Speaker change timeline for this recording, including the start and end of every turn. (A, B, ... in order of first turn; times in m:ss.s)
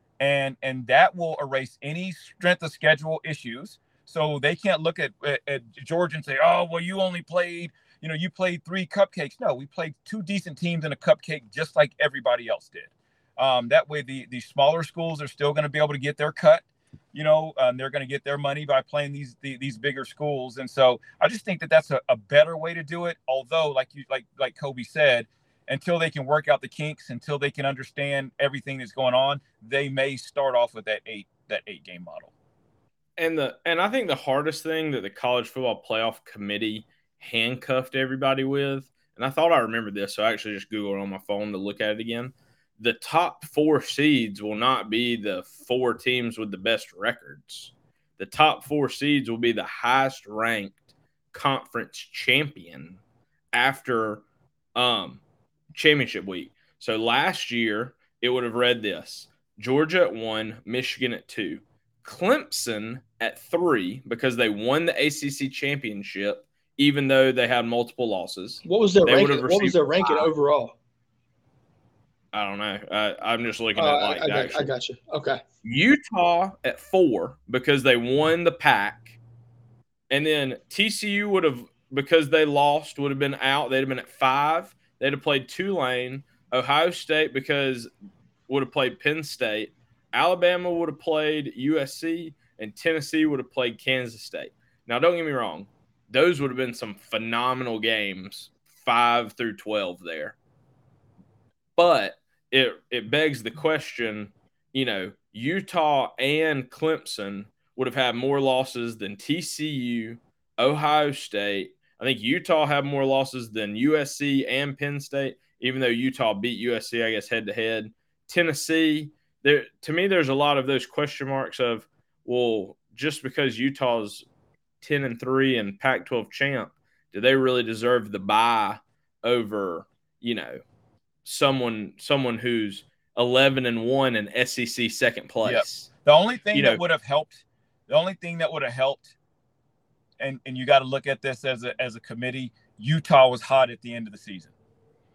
0:00.2-0:32.3 A
0:33.2-0:50.8 B
0:51.3-0:53.0 B
0:53.5-0:54.2 B
0:54.8-0:55.2 B
0:55.7-1:10.3 B
1:08.6-1:10.8 C
1:12.3-1:14.7 B
1:13.8-1:15.4 C
1:15.6-1:19.2 B
1:20.1-1:27.9 B
1:28.5-1:40.4 B
1:41.8-2:04.3 B
2:04.8-2:10.6 B
2:11.2-2:15.9 B
2:15.4-2:19.1 A
2:16.5-2:16.8 B
2:20.2-2:24.5 A